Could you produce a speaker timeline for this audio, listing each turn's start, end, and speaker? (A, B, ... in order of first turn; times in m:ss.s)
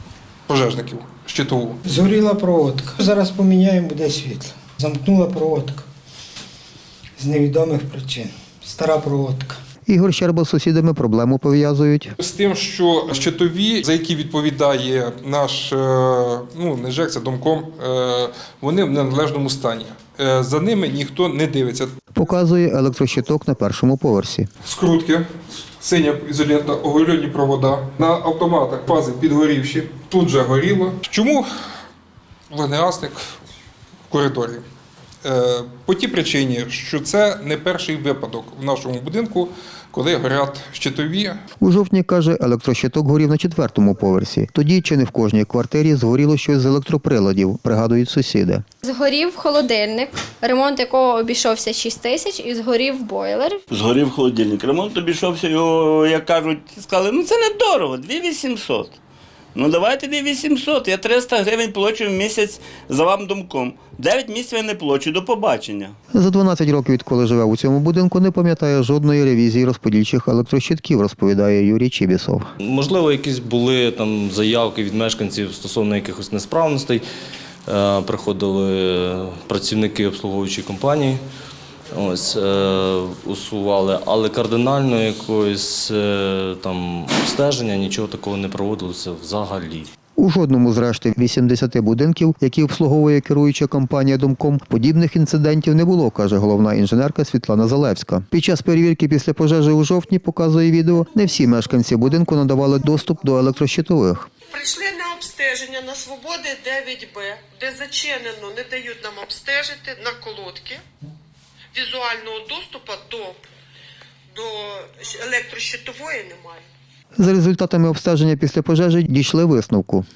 0:00.5-0:01.8 A
0:01.9-0:05.9 B
0:07.2-0:09.6 B
0:09.9-0:12.1 C
0:12.2-0:22.0 A
0:22.2-0:24.5 C
0:24.6-0:25.3 A
0:25.8-0:31.5 A
0:32.5-0:33.2 A
0:34.1-0:34.6 A
0:35.2-0:41.4 A
0:41.6-0:48.6 C
0:48.8-0:53.6 D
0:53.7-0:59.0 E
0:59.6-1:06.0 E
1:06.1-1:12.5 C
1:12.6-1:17.0 F
1:17.7-1:21.2 F
1:21.9-1:29.9 F
1:30.2-1:44.3 C
1:44.5-1:50.8 G
1:51.7-1:53.4 G
1:54.3-1:56.6 G
1:57.2-2:00.0 C